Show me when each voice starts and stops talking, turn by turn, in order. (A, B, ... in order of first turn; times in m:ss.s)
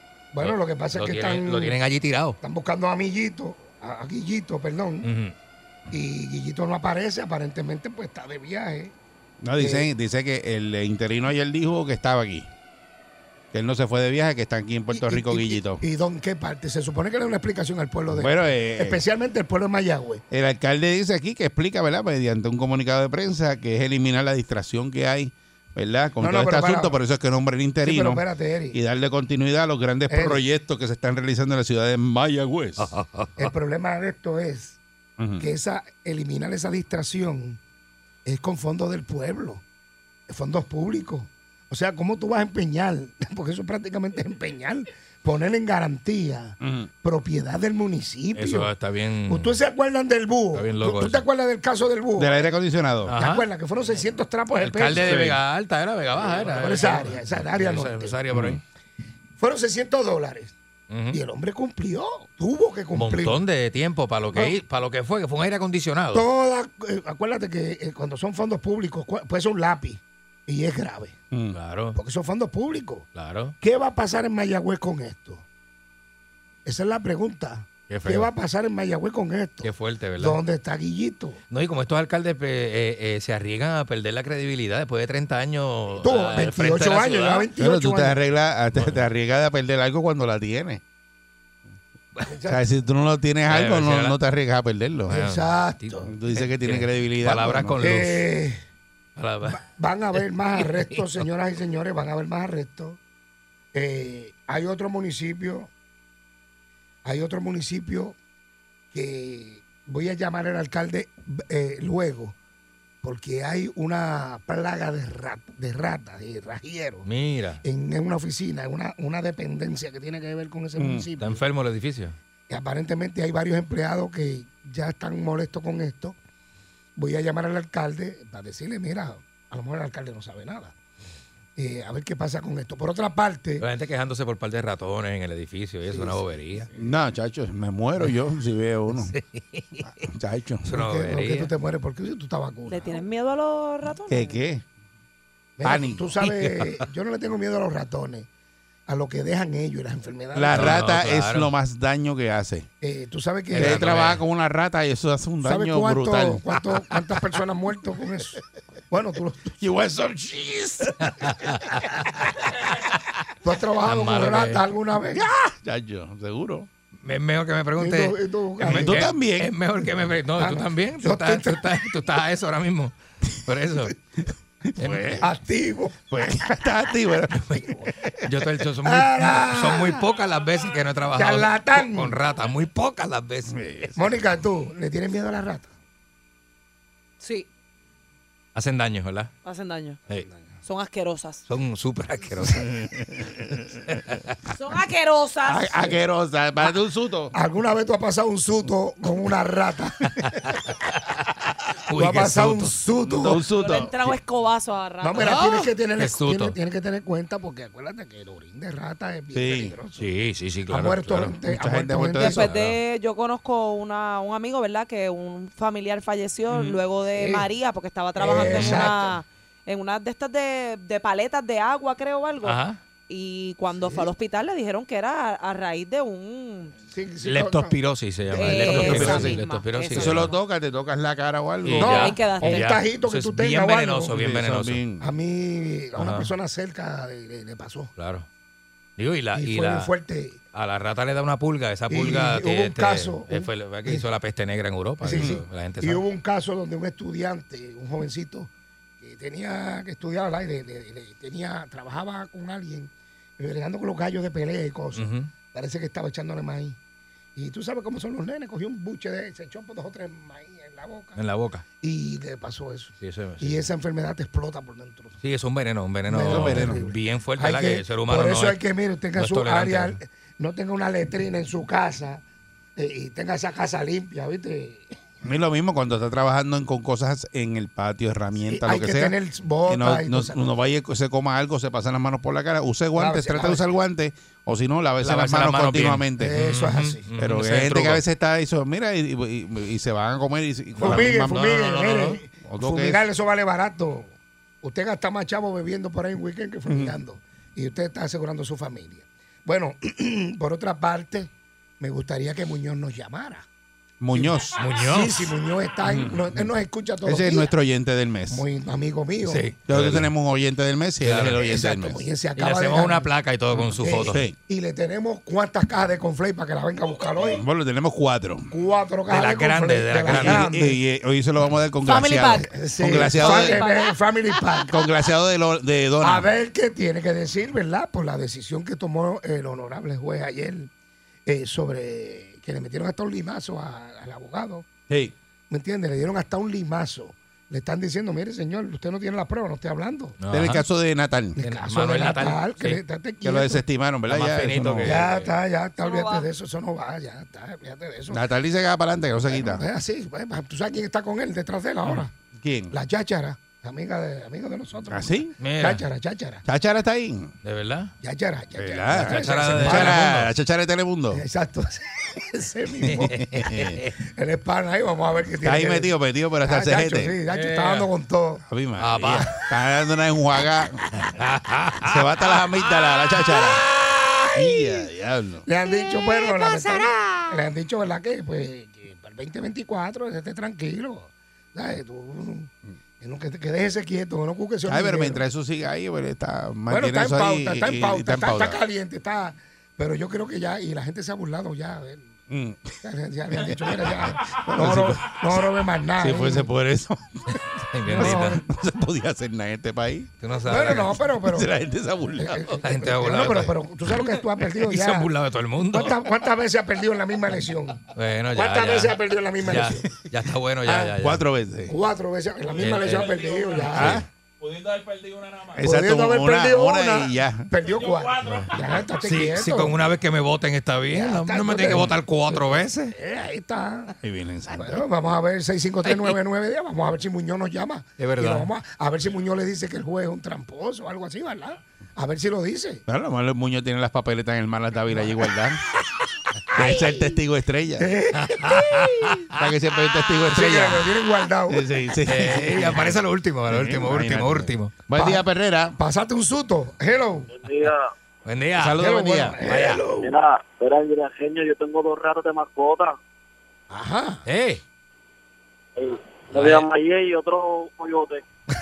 0:00.3-0:01.8 A
0:00.4-0:02.4 B
0:02.4-0:05.1 A
0:05.0-0:05.3 B
0:05.9-0:08.9 A
0:09.4-0:12.5 C
0:09.6-0:09.9 A
0:13.5-0:15.8 C
0:14.9-0:20.2 A
0:18.1-0:19.0 C
0:20.3-0:32.9 C
0:26.2-0:27.0 A
0:27.8-0:28.8 A
0:30.1-0:30.4 A
0:32.8-0:33.5 B
0:33.4-0:34.8 A
0:35.2-0:35.5 C
0:35.4-0:37.6 A
0:38.2-0:39.6 A
0:40.3-0:48.7 A
0:46.6-0:46.9 C
0:48.4-0:49.6 B
0:49.3-0:52.5 A
0:50.5-0:51.2 B
0:52.2-0:53.1 C
0:53.1-0:53.4 B
0:53.2-0:55.2 A
0:54.6-0:58.6 B
0:55.0-0:55.4 C
0:56.3-0:58.2 A
0:58.3-0:58.6 C
0:59.4-1:00.5 A
1:00.9-1:01.2 B
1:01.1-1:03.4 A
1:02.9-1:06.3 B
1:06.1-1:11.2 A
1:11.5-1:12.0 B
1:12.0-1:13.1 A
1:13.2-1:13.6 B
1:13.6-1:15.4 A
1:16.6-1:21.4 A
1:17.9-1:18.3 B
1:19.6-1:20.4 B
1:21.5-1:27.5 B
1:26.0-1:28.2 A
1:27.6-1:30.8 C
1:28.7-1:29.0 B
1:32.3-1:32.6 A
1:32.5-1:35.2 C
1:33.5-1:34.2 B
1:35.1-1:38.2 B
1:35.1-1:36.1 A
1:36.1-1:37.8 C
1:37.8-1:38.6 A
1:39.2-1:39.6 B
1:39.5-1:43.0 A
1:43.7-1:45.7 A
1:47.0-1:48.2 A
1:48.9-1:52.4 A
1:53.0-1:57.1 A
1:57.1-1:57.6 B
1:57.6-2:01.4 A
2:00.8-2:01.1 C
2:01.2-2:02.2 B
2:02.5-2:06.2 A
2:07.0-2:10.7 A
2:11.6-2:13.6 A
2:13.6-2:16.7 B
2:15.9-2:16.2 A
2:16.8-2:19.1 C
2:18.9-2:20.1 B
2:20.0-2:20.6 C
2:20.7-2:21.5 B
2:20.7-2:23.0 A
2:22.7-2:24.4 D
2:24.1-2:24.6 C
2:25.6-2:28.3 A
2:25.6-2:26.1 C
2:26.2-2:26.8 B
2:28.9-2:30.8 A
2:30.4-2:32.7 C
2:30.5-2:31.5 B
2:32.8-2:33.9 A
2:33.5-2:34.2 B
2:33.6-2:36.4 C
2:35.4-2:39.6 A
2:39.6-2:41.1 C
2:41.0-2:42.2 B
2:43.4-2:45.2 A
2:43.9-2:44.6 B
2:45.1-2:46.7 C
2:47.0-2:53.9 B
2:47.8-2:49.0 A
2:48.6-2:49.5 C
2:50.4-2:51.6 A
2:54.8-2:55.3 C
2:54.8-2:55.2 B
2:55.2-2:56.0 A
2:56.1-2:58.1 C
2:57.4-2:57.7 B
2:58.2-3:03.9 B
2:58.8-3:00.0 A
3:01.2-3:02.2 A
3:03.5-3:04.0 C
3:04.0-3:05.7 A
3:07.2-3:07.5 D
3:08.6-3:09.3 B
3:09.4-3:10.0 D
3:10.6-3:11.4 D
3:11.5-3:12.7 B
3:12.7-3:13.3 C
3:13.9-3:14.3 B
3:14.5-3:16.0 D
3:15.4-3:17.3 C
3:17.3-3:20.2 A
3:20.2-3:20.6 B
3:21.9-3:22.8 B
3:22.0-3:23.4 A
3:23.1-3:24.2 C
3:23.4-3:25.4 D
3:25.0-3:30.1 A
3:25.2-3:26.6 B
3:29.3-3:29.8 C
3:30.0-3:31.4 B
3:30.7-3:32.5 A
3:31.5-3:32.5 C
3:32.2-3:46.7 D
3:32.4-3:32.8 B
3:36.5-3:36.8 C
3:37.1-3:37.5 A
3:38.2-3:39.2 A
3:38.4-3:38.9 B
3:42.4-3:42.8 B
3:43.7-3:44.1 A
3:46.9-3:47.8 A
3:47.2-3:50.3 B
3:48.4-3:50.3 D
3:48.4-3:49.3 A
3:48.8-3:49.4 C
3:49.9-3:52.2 C
3:51.6-3:54.8 B
3:51.8-3:54.2 A
3:51.9-3:52.7 D
3:54.1-3:55.1 C
3:55.0-3:57.9 A
3:56.0-3:56.3 B
3:58.0-3:58.3 B
3:59.0-3:59.9 B
3:59.4-4:00.4 A
4:00.5-4:06.0 B
4:01.9-4:04.0 A
4:05.0-4:16.8 A
4:05.1-4:05.4 C
4:15.0-4:15.3 B
4:17.4-4:21.2 A
4:21.2-4:21.6 B
4:21.8-4:25.2 A
4:23.0-4:23.6 B
4:25.2-4:28.6 B
4:26.1-4:32.2 A
4:26.3-4:26.9 C
4:29.2-4:30.0 B
4:32.8-4:35.0 A
4:35.2-4:46.4 C
4:38.5-4:40.5 A
4:43.0-4:43.7 A
4:45.0-4:48.0 B
4:46.2-4:47.0 A
4:47.2-4:51.6 C
4:50.8-4:52.2 B
4:50.8-5:03.5 A
4:52.4-4:53.0 C
4:56.7-4:57.0 C
5:04.0-5:04.6 C
5:04.1-5:07.5 A
5:04.6-5:05.3 B
5:05.8-5:06.5 C
5:07.0-5:08.4 C
5:08.3-5:09.5 A
5:09.2-5:10.1 B
5:09.7-5:12.0 C
5:11.0-5:11.4 B
5:11.4-5:13.1 A
5:12.4-5:14.2 B
5:13.8-5:17.4 A
5:14.1-5:14.4 C
5:17.2-5:18.5 C
5:18.5-5:20.8 A
5:19.1-5:20.4 B
5:20.1-5:23.6 C
5:21.8-5:24.6 D
5:22.5-5:24.8 A
5:24.7-5:26.3 C
5:26.0-5:30.7 A
5:31.3-5:34.7 A
5:34.9-5:35.2 C
5:35.5-5:40.2 A
5:40.2-5:40.6 B
5:40.3-5:41.4 C
5:41.4-5:43.6 A
5:41.4-5:42.8 B
5:43.2-5:45.0 C
5:44.1-5:45.3 B
5:44.8-5:48.2 A
5:45.8-5:46.3 D
5:48.1-5:49.6 C
5:49.3-5:52.1 A
5:52.4-5:52.7 C
5:52.7-5:56.4 A
5:54.9-5:55.3 C
5:55.4-5:55.8 B
5:56.5-5:57.3 C
5:57.4-5:57.9 B
5:58.0-6:00.1 A
5:58.6-6:01.2 C
5:59.0-6:00.3 B
6:01.1-6:03.4 A
6:02.9-6:03.8 C
6:02.9-6:03.9 B
6:04.2-6:08.4 A
6:05.4-6:07.2 C
6:07.3-6:07.9 B
6:08.5-6:10.9 C
6:08.8-6:09.4 B
6:11.0-6:12.7 B
6:11.8-6:13.6 C
6:14.3-6:15.4 C
6:15.5-6:25.2 A
6:16.2-6:16.9 D
6:24.7-6:28.6 C
6:26.7-6:32.2 A
6:32.3-6:32.8 C
6:32.8-6:36.5 A
6:33.5-6:42.6 C
6:37.7-6:38.4 B
6:37.9-6:38.5 A
6:40.2-6:41.0 B
6:40.5-6:41.5 A
6:42.2-6:45.1 A
6:42.6-6:46.0 B
6:45.7-6:49.8 A
6:47.9-6:51.2 B
6:50.7-6:51.8 C
6:51.7-6:54.0 A
6:52.6-6:53.3 B
6:53.7-6:54.1 C
6:55.5-6:57.5 C
6:55.5-6:59.8 A
6:58.2-7:03.0 B
7:00.9-7:03.9 A
7:04.0-7:04.8 C
7:04.5-7:12.8 A
7:05.9-7:06.1 B
7:08.0-7:08.5 B
7:12.9-7:15.6 C
7:16.5-7:17.9 C
7:16.6-7:17.1 A
7:17.8-7:18.9 A
7:18.1-7:19.4 B
7:19.3-7:20.9 C
7:20.3-7:21.7 A
7:21.5-7:25.8 C
7:22.1-7:24.7 B
7:25.0-7:27.3 A
7:27.3-7:27.9 E
7:28.3-7:29.8 B
7:28.6-7:29.4 C
7:28.8-7:30.2 A
7:30.0-7:33.0 E
7:33.7-7:34.2 A
7:34.3-7:34.6 B
7:35.8-7:38.2 E
7:36.3-7:36.7 B